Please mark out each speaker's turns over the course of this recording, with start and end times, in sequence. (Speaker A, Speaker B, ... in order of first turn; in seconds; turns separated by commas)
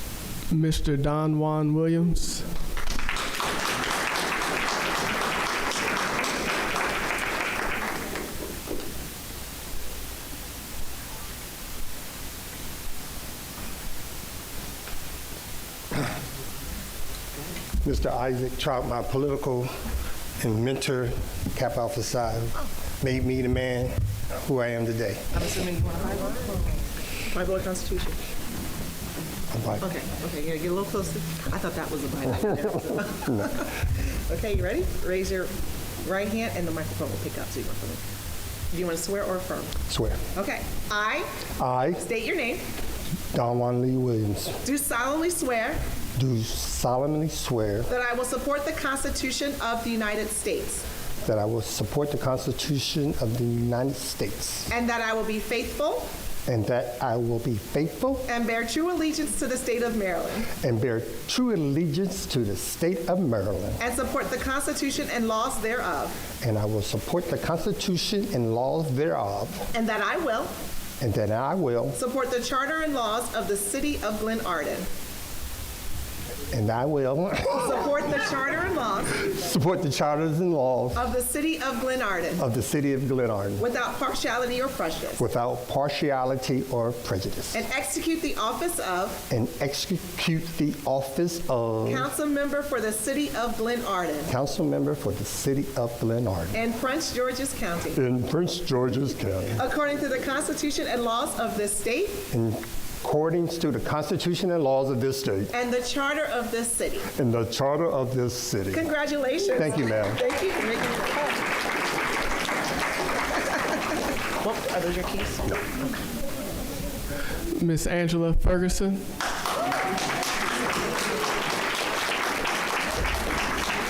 Speaker A: 0.5-2.4, Speaker B: 17.8-19.7, Speaker B: 20.4-25.3, Speaker C: 25.3-28.2, Speaker B: 29.5-29.9, Speaker C: 29.8-35.5, Speaker C: 36.0-38.0, Speaker C: 38.7-39.7, Speaker B: 39.9-40.2, Speaker C: 40.3-41.3, Speaker B: 41.6-42.0, Speaker C: 42.0-42.6, Speaker B: 43.3-44.6, Speaker C: 44.6-45.8, Speaker B: 46.1-47.9, Speaker C: 47.9-50.9, Speaker B: 51.2-54.7, Speaker C: 54.7-56.1, Speaker B: 56.5-58.3, Speaker C: 58.3-60.5, Speaker B: 60.5-63.8, Speaker C: 63.8-66.2, Speaker B: 66.4-69.7, Speaker C: 69.7-70.5, Speaker B: 71.0-72.0, Speaker C: 72.0-74.9, Speaker B: 76.5-77.9, Speaker C: 77.6-79.2, Speaker B: 79.2-81.0, Speaker C: 80.9-82.4, Speaker B: 82.3-83.6, Speaker C: 83.6-85.2, Speaker B: 85.2-87.6, Speaker C: 87.5-89.2, Speaker B: 89.3-92.1, Speaker C: 91.8-94.3, Speaker B: 94.3-96.6, Speaker C: 96.5-98.0, Speaker B: 97.9-99.6, Speaker C: 99.6-102.2, Speaker B: 102.3-105.5, Speaker C: 105.5-107.1, Speaker B: 107.1-108.9, Speaker C: 108.7-111.5, Speaker B: 109.5-110.2, Speaker C: 114.4-115.8, Speaker A: 117.5-119.0